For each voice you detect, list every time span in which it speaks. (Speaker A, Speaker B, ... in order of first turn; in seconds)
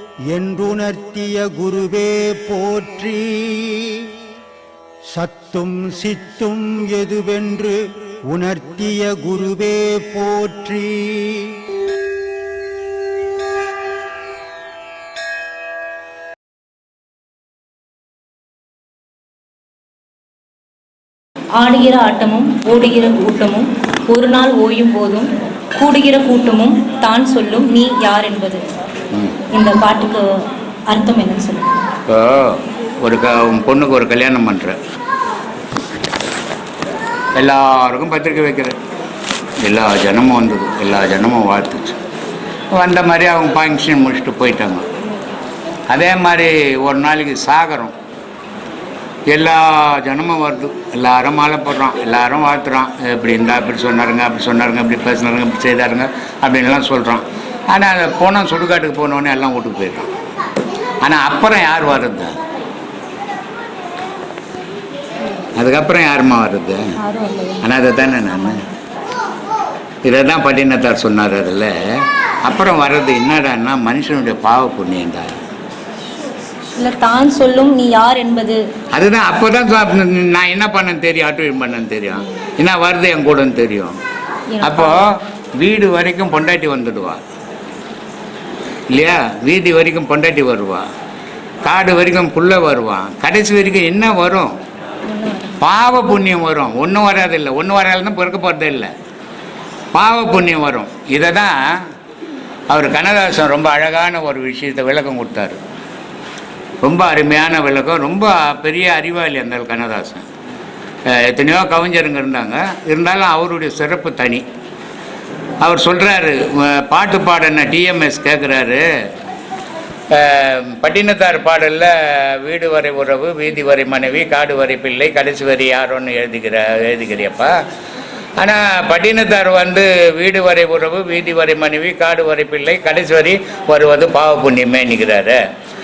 Speaker A: 0.3-4.0, 5.1-11.5
Speaker B: 21.6-28.6, 29.5-30.3, 30.9-31.9, 67.0-67.7, 76.8-78.6, 82.1-82.4, 84.5-85.0, 95.1-95.6
Speaker C: 32.1-34.8, 37.3-38.8, 39.6-42.0, 42.7-44.9, 45.9-47.9, 49.3-60.1, 61.0-62.3, 65.5-66.8, 67.6-68.6, 70.0-75.4, 78.9-84.0, 84.6-87.2, 88.9-90.8, 91.6-94.5, 95.6-98.9, 99.9-101.6, 102.7-105.6, 106.8-110.2, 111.1-114.4, 115.6-118.8, 120.1-127.5, 128.4-135.4